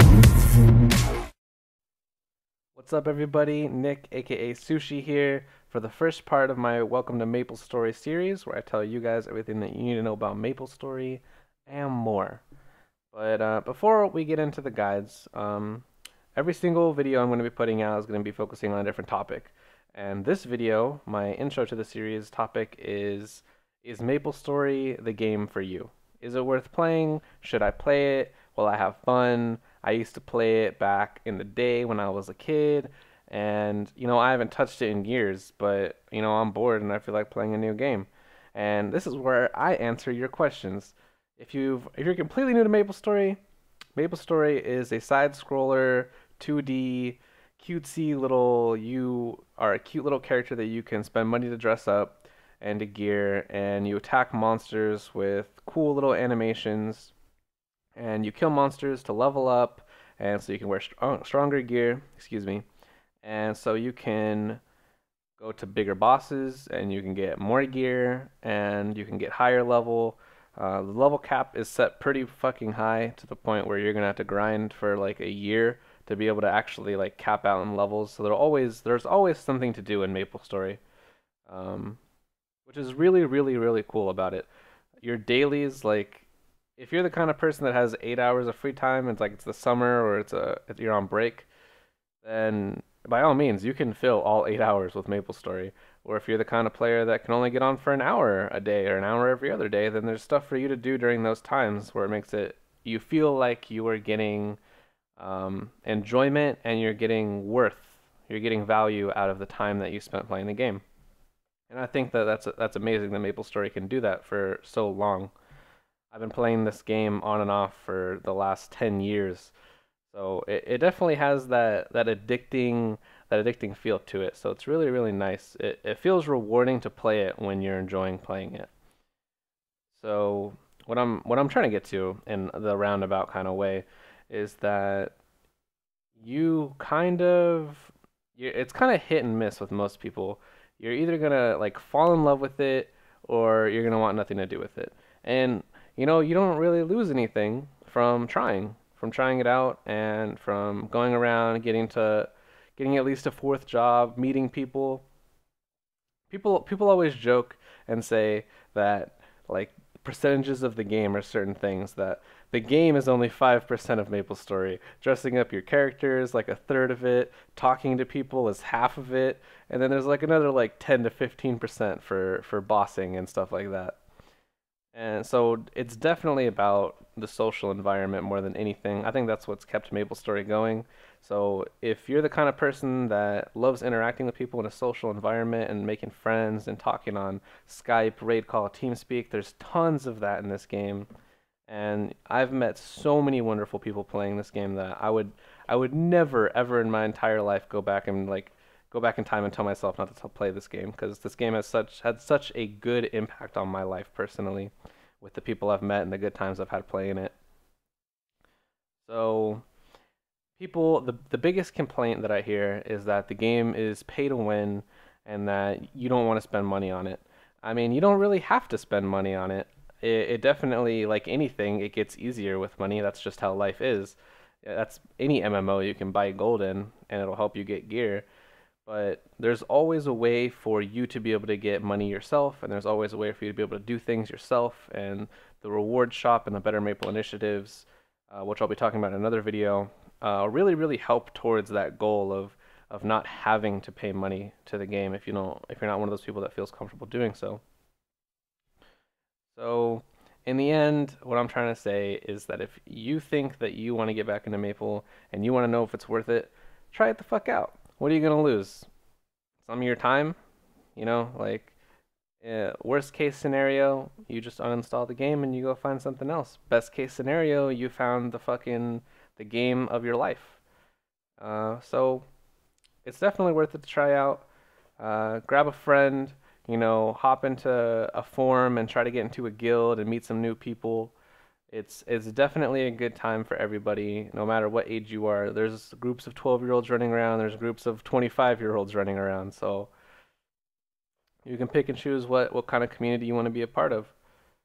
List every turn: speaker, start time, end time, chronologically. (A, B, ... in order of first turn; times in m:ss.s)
0:02.8-0:12.4 A
0:13.1-0:43.4 A
0:44.0-0:57.1 A
0:58.0-1:02.6 A
1:03.2-1:04.6 A
1:05.4-1:20.8 A
1:21.5-1:22.0 A
1:22.7-1:24.5 A
1:25.0-1:31.5 A
1:32.2-1:44.6 A
1:45.2-1:50.8 A
1:51.7-1:55.3 A
1:56.1-1:59.5 A
2:00.1-2:08.7 A
2:09.9-2:15.2 A
2:16.2-2:35.0 A
2:36.3-2:54.0 A
2:54.9-3:11.1 A
3:11.7-3:27.4 A
3:29.0-3:29.6 A
3:30.6-3:48.3 A
3:48.9-4:07.6 A
4:09.5-4:18.9 A
4:19.6-4:20.4 A
4:21.0-4:21.7 A
4:22.4-4:30.6 A
4:31.4-4:32.3 A
4:33.0-4:34.5 A
4:35.0-4:41.2 A
4:41.7-4:49.9 A
4:51.4-4:54.1 A